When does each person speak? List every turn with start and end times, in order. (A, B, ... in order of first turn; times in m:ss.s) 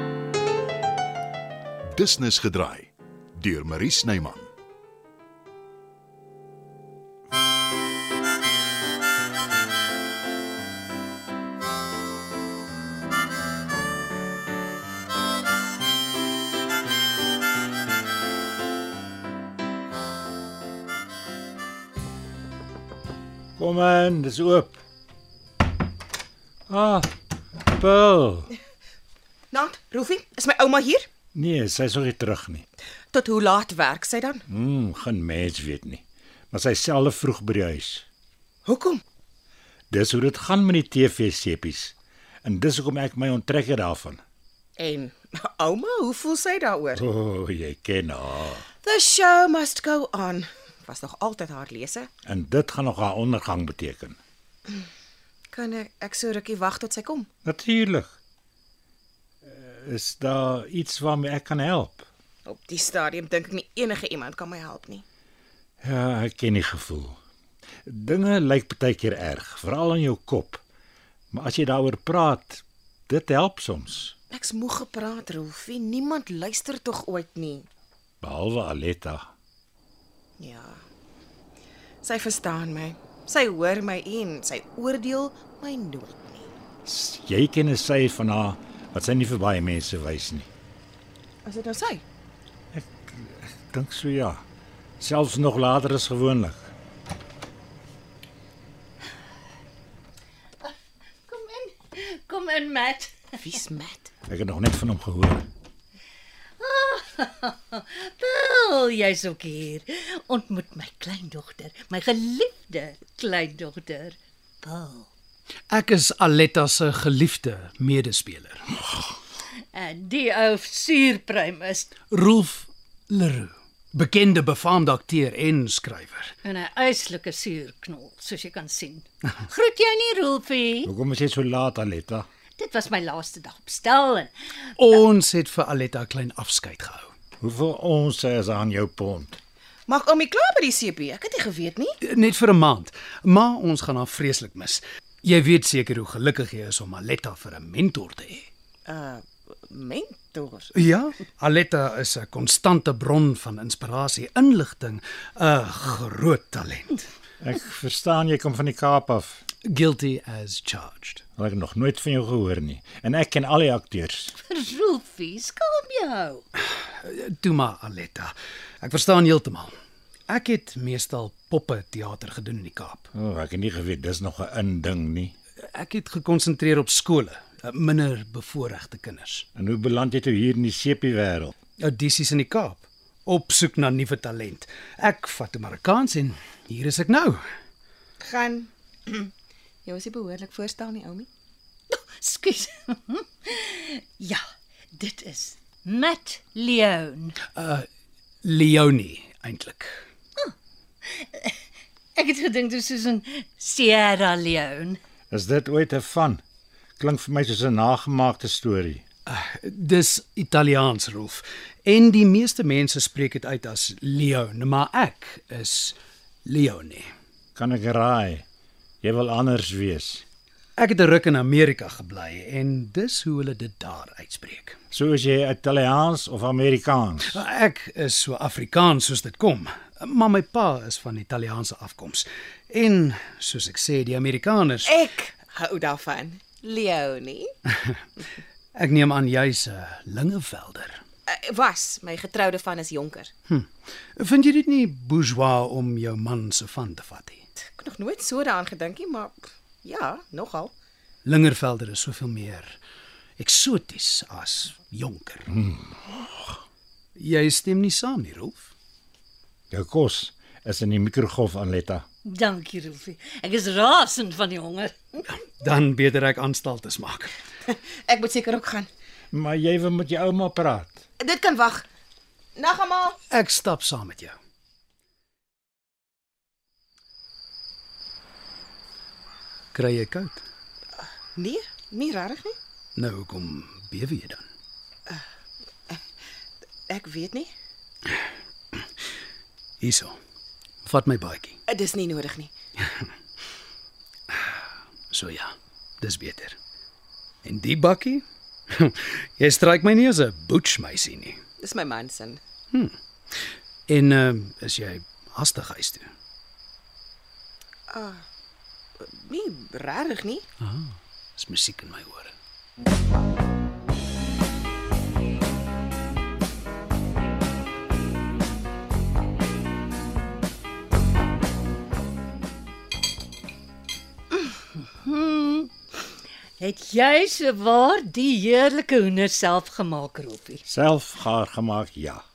0:01.9-0:04.5 A
0:23.6-0:24.8 B
0:26.7-0:28.5 B
0:29.5-0:31.1 C
0:31.3-0:32.6 B
0:33.1-0:34.4 C
0:34.5-0:38.0 B
0:38.6-0:39.0 C
0:39.9-0:44.2 B
0:44.8-0:47.0 C
0:46.9-0:48.6 B
0:48.8-0:52.1 C
0:52.2-0:54.2 B
0:55.5-0:57.3 C
0:57.4-0:58.1 B
0:59.4-1:02.1 B
1:02.4-1:05.0 C
1:05.8-1:07.2 B
1:07.8-1:10.6 B
1:11.3-1:14.1 B
1:14.3-1:17.7 C
1:18.2-1:19.3 B
1:20.4-1:20.8 C
1:22.0-1:26.5 C
1:26.8-1:30.5 B
1:31.4-1:32.0 C
1:32.7-1:34.4 B
1:35.0-1:36.7 B
1:41.3-1:43.4 D
1:43.4-1:44.1 C
1:44.3-1:45.4 B
1:46.6-1:55.1 D
1:55.7-1:58.9 E
1:59.7-2:02.0 D
2:02.0-2:06.3 E
2:06.4-2:10.9 D
2:10.8-2:12.3 B
2:12.6-2:14.8 D
2:14.8-2:17.1 E
2:17.4-2:19.4 B
2:19.9-2:22.0 C
2:22.0-2:28.5 E
2:28.9-2:30.7 C
2:30.7-2:37.0 E
2:37.4-2:39.4 B
2:39.6-2:41.2 E
2:41.4-2:44.3 B
2:44.4-2:46.4 D
2:46.7-2:49.7 E
2:50.3-2:53.1 E
2:53.1-2:55.3 B
2:55.6-2:59.5 E
2:59.6-3:01.5 B
3:01.8-3:07.4 E
3:08.2-3:09.3 C
3:09.8-3:11.3 C
3:11.9-3:14.4 D
3:14.9-3:17.4 D
3:17.4-3:17.8 E
3:18.4-3:20.0 E
3:21.0-3:21.6 D
3:22.2-3:25.0 D
3:25.3-3:26.4 B
3:27.0-3:29.0 B
3:29.2-3:37.1 E
3:37.6-3:38.4 B
3:39.0-3:40.2 B
3:40.8-3:44.8 E
3:44.9-3:47.4 B
3:47.3-3:54.9 E
3:54.8-3:57.5 C
3:58.7-4:01.0 E
4:01.3-4:03.3 C
4:03.5-4:07.4 E
4:07.6-4:10.7 C
4:11.2-4:12.8 E
4:13.4-4:15.5 E
4:15.6-4:15.9 B
4:17.2-4:18.7 E
4:19.7-4:22.0 B
4:22.2-4:25.3 D
4:25.3-4:27.3 E
4:27.7-4:28.9 C
4:29.3-4:31.0 B
4:31.2-4:31.8 C
4:32.6-4:33.2 C
4:33.3-4:34.4 E
4:39.7-4:40.4 E
4:41.0-4:42.6 C
4:43.0-4:44.4 E
4:46.9-4:47.5 C
4:49.8-4:50.2 E
4:50.8-4:51.6 E
4:51.7-4:52.5 C
4:52.8-4:53.1 E
4:55.1-4:56.6 E
4:57.4-5:01.4 E
5:01.6-5:02.4 C
5:02.7-5:06.1 E
5:07.9-5:08.2 C
5:09.0-5:10.4 C
5:10.6-5:12.3 E
5:24.3-5:25.7 D
5:26.6-5:30.6 D
5:30.6-5:32.2 B